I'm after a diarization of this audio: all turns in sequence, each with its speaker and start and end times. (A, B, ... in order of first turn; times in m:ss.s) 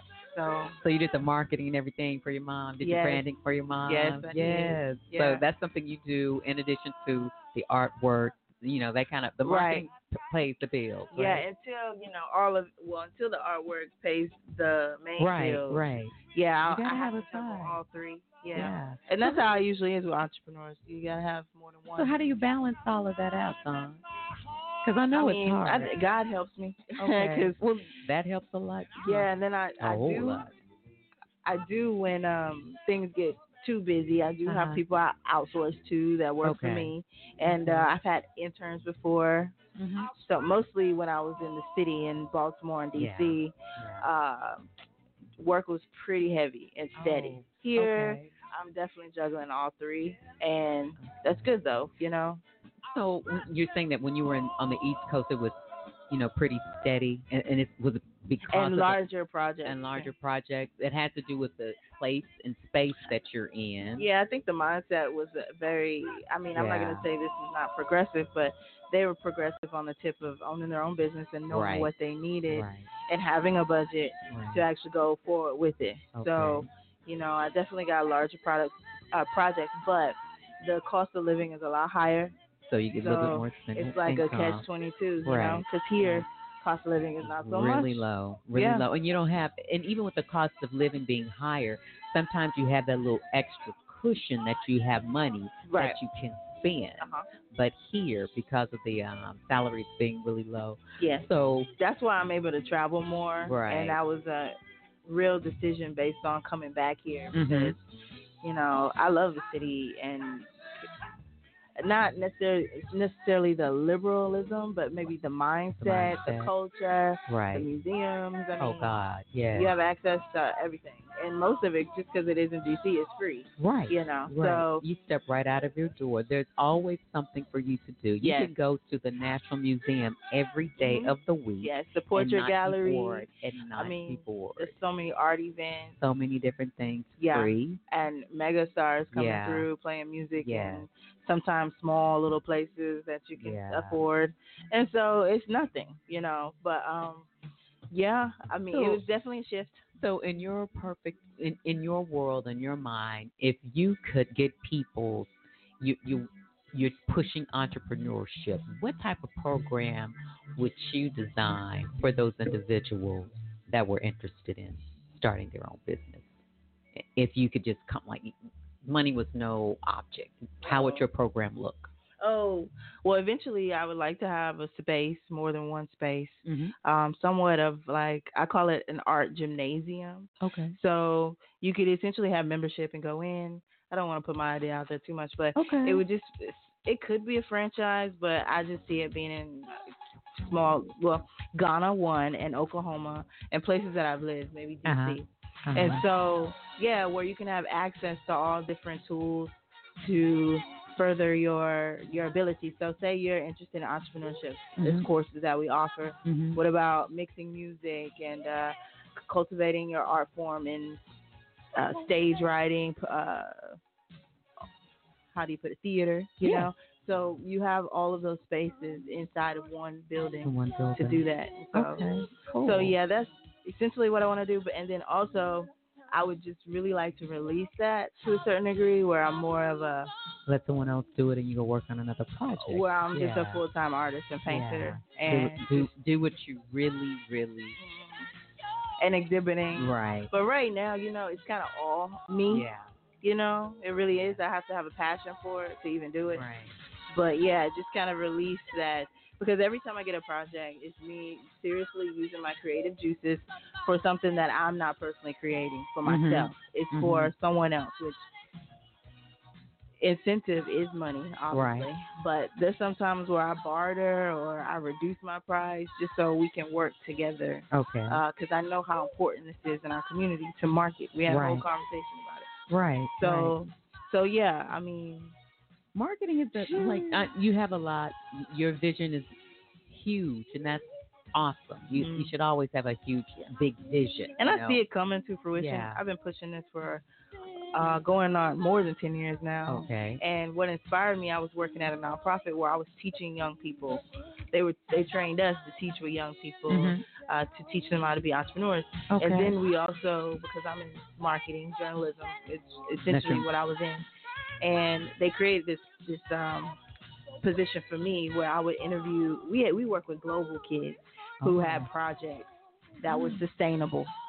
0:00.3-0:00.8 A
0:00.8-0:11.4 B
0:02.8-0:03.2 A
0:03.8-0:05.4 A
0:09.4-0:09.8 A
0:11.1-0:22.2 A
0:15.2-0:17.8 B
0:18.5-0:19.4 B
0:22.0-0:24.0 B
0:24.8-0:25.9 B
0:25.1-0:27.6 A
0:27.0-0:29.3 B
0:29.0-0:30.4 A
0:29.8-0:30.6 B
0:31.4-0:39.5 A
0:34.4-0:34.8 B
0:36.4-0:36.9 B
0:37.5-0:37.9 B
0:39.8-0:40.1 B
0:40.1-0:44.7 A
0:43.0-0:44.1 B
0:45.4-0:52.4 A
0:47.0-0:48.3 B
0:51.0-0:51.5 B
0:52.9-0:59.0 B
0:58.5-1:00.1 A
0:59.6-1:04.1 B
1:04.0-1:22.3 A
1:06.5-1:07.0 B
1:11.5-1:11.9 B
1:12.5-1:12.9 B
1:14.3-1:14.6 B
1:16.1-1:16.7 B
1:22.7-1:24.7 B
1:23.0-1:28.9 A
1:25.2-1:26.2 B
1:27.2-1:41.7 B
1:35.6-1:36.0 A
1:37.0-1:37.2 A
1:41.0-1:41.3 A
1:41.8-1:47.8 A
1:43.4-1:44.0 B
1:47.3-1:47.8 B
1:48.4-1:50.5 A
1:51.8-1:58.9 A
1:55.8-1:56.5 B
1:57.3-1:57.7 B
1:58.6-1:59.7 B
1:59.5-2:04.8 A
2:03.6-2:14.8 B
2:08.2-2:08.5 A
2:10.8-2:16.0 A
2:16.0-2:17.8 B
2:17.2-2:27.3 A
2:19.1-2:19.7 B
2:20.4-2:20.8 B
2:23.4-2:24.0 B
2:27.9-2:29.8 A
2:28.7-2:29.0 B
2:30.0-2:35.3 B
2:35.8-2:46.4 B
2:46.9-2:51.9 B
2:50.6-2:51.0 A
2:52.2-3:09.8 A
2:56.4-2:56.7 B
3:00.4-3:00.8 B
3:05.6-3:06.0 B
3:10.4-3:31.0 A
3:14.8-3:16.0 B
3:24.8-3:25.1 B
3:26.2-3:26.6 B
3:31.7-3:33.8 A
3:35.3-3:42.0 A
3:36.4-3:36.7 B
3:40.4-3:41.2 B
3:41.7-3:42.9 B
3:42.6-3:50.1 A
3:50.5-3:53.6 B
3:52.5-3:55.9 A
3:54.5-3:57.8 B
3:57.8-3:58.3 A
3:59.0-4:02.7 A
3:59.8-4:00.3 B
4:02.5-4:02.9 B
4:03.2-4:06.4 A
4:04.1-4:04.4 B
4:06.3-4:06.8 B
4:07.1-4:18.2 A
4:16.0-4:17.3 B
4:20.0-4:32.5 A
4:21.5-4:21.9 B
4:27.7-4:28.2 B
4:31.3-4:31.6 B
4:32.7-4:33.6 B
4:33.2-4:35.4 A
4:35.9-4:39.4 B
4:36.6-4:37.2 A
4:39.9-4:44.8 B
4:41.9-4:42.3 A
4:44.4-4:47.0 A
4:45.5-4:46.0 B
4:47.7-5:04.1 A
4:49.7-4:50.2 B
4:56.7-4:57.0 B
4:59.1-4:59.5 B
5:03.1-5:03.5 B
5:04.6-5:06.8 A
5:07.4-5:14.1 A
5:11.4-5:11.9 B
5:13.0-5:13.4 B